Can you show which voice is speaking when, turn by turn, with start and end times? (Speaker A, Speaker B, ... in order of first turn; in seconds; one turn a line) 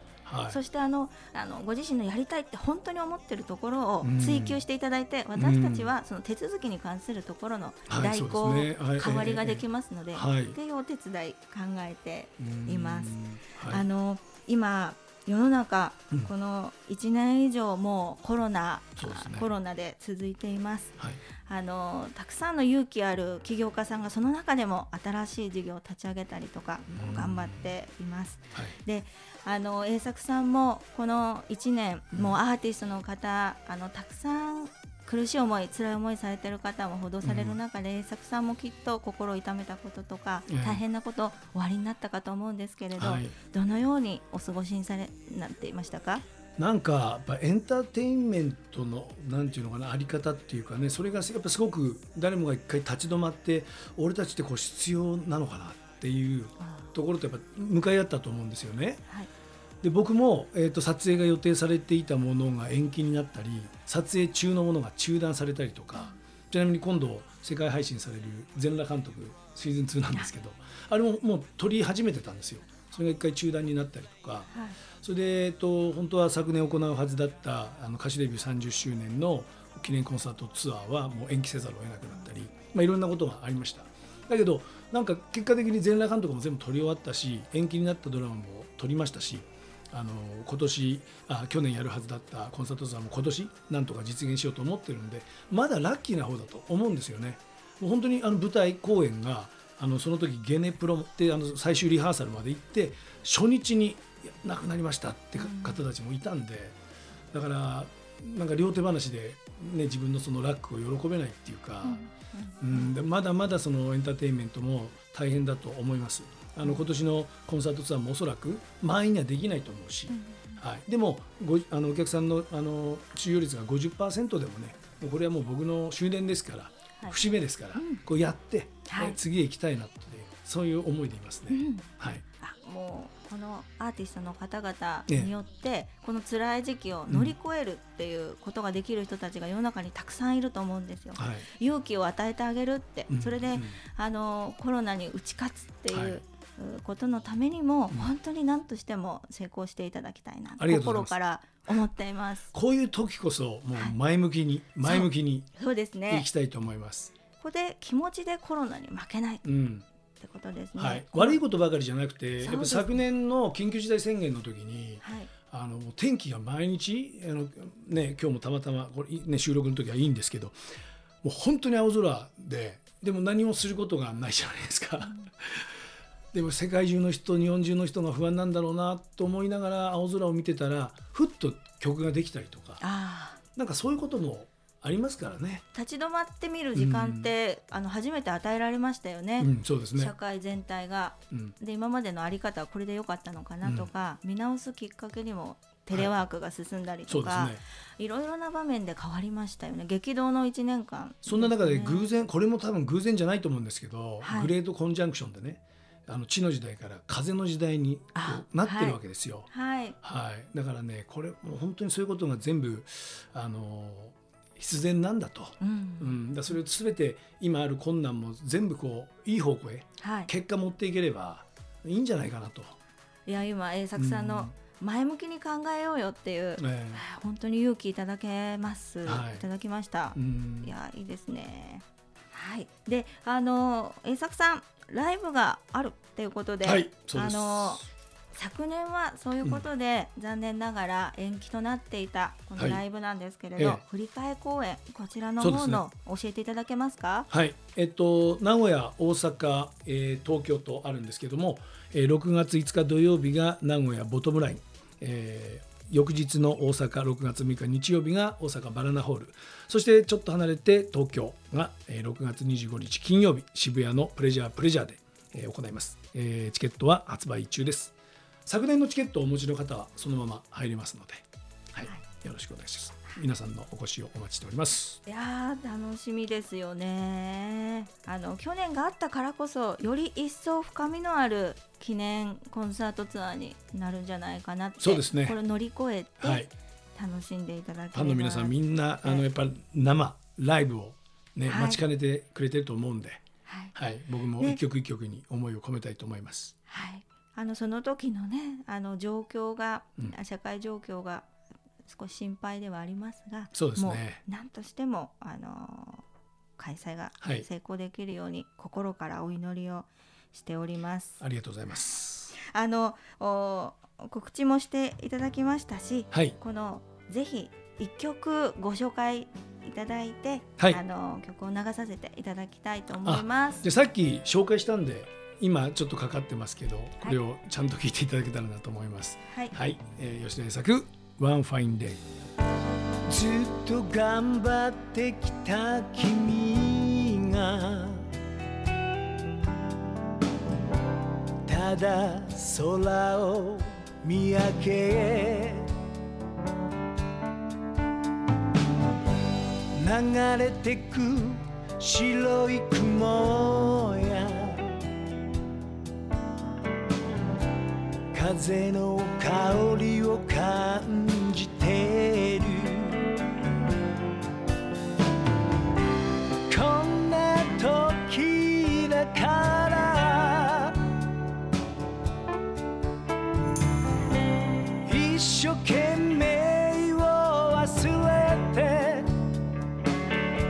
Speaker A: 0.2-0.6
Speaker B: 0.5-46.2
Speaker A: 4.0-4.6
Speaker A: 5.3-5.9
Speaker A: 7.9-10.6
Speaker A: 12.4-13.8
Speaker A: 19.0-19.5
Speaker A: 26.9-27.7
Speaker A: 37.2-37.6
Speaker A: 40.5-40.8
Speaker A: 43.0-43.3
Speaker A: 46.6-59.0
Speaker B: 56.6-56.9
Speaker A: 59.8-106.8
Speaker B: 74.5-74.8
Speaker B: 105.4-105.8
Speaker A: 107.3-112.0
Speaker B: 111.8-113.0
Speaker A: 112.6-132.2
Speaker B: 120.1-120.6
Speaker B: 127.7-128.0
Speaker B: 128.8-129.2
Speaker B: 131.5-152.5
Speaker A: 137.1-137.3
Speaker A: 141.2-141.4
Speaker A: 143.1-143.8
Speaker A: 145.9-146.2
Speaker A: 150.6-151.1
Speaker A: 152.5-155.5
Speaker B: 154.8-156.3
Speaker A: 156.1-157.1
Speaker B: 157.4-159.4
Speaker A: 159.4-159.8
Speaker B: 160.2-161.4
Speaker A: 160.8-170.6
Speaker B: 162.4-163.0
Speaker B: 165.0-165.3
Speaker A: 171.2-175.7
Speaker A: 176.3-182.8
Speaker B: 182.8-183.4
Speaker A: 183.5-185.6
Speaker B: 185.7-202.1
Speaker A: 186.7-187.3
Speaker A: 189.4-190.1
Speaker A: 193.6-193.9
Speaker A: 197.1-197.6
Speaker A: 201.2-209.5
Speaker B: 204.2-204.5
Speaker B: 208.1-209.0
Speaker B: 209.5-209.9
Speaker A: 210.0-222.8
Speaker B: 215.6-216.2
Speaker B: 220.0-220.3
Speaker B: 223.3-247.3
Speaker A: 223.9-224.5
Speaker A: 226.6-227.0
Speaker A: 229.1-229.4
Speaker A: 230.1-230.7
Speaker A: 236.6-237.8
Speaker A: 242.6-242.8
Speaker A: 243.6-243.8
Speaker A: 245.4-245.8
Speaker A: 247.3-267.9
Speaker A: 268.4-275.0
Speaker B: 275.1-289.2
Speaker A: 284.8-285.4
Speaker A: 286.2-286.5
Speaker A: 287.9-293.2
Speaker B: 291.5-291.8
Speaker B: 293.4-293.7
Speaker A: 293.7-296.5
Speaker B: 296.7-301.3
Speaker B: 301.8-306.0
Speaker A: 303.5-304.2
Speaker B: 306.6-311.2
Speaker A: 307.2-307.4
Speaker A: 311.2-312.3
Speaker B: 312.4-323.7
Speaker A: 316.1-316.4
Speaker A: 323.0-332.1
Speaker A: 333.0-338.1
Speaker A: 341.4-345.7
Speaker A: 349.7-354.8
Speaker A: 358.1-363.1
Speaker A: 366.5-370.8
Speaker A: 374.8-379.1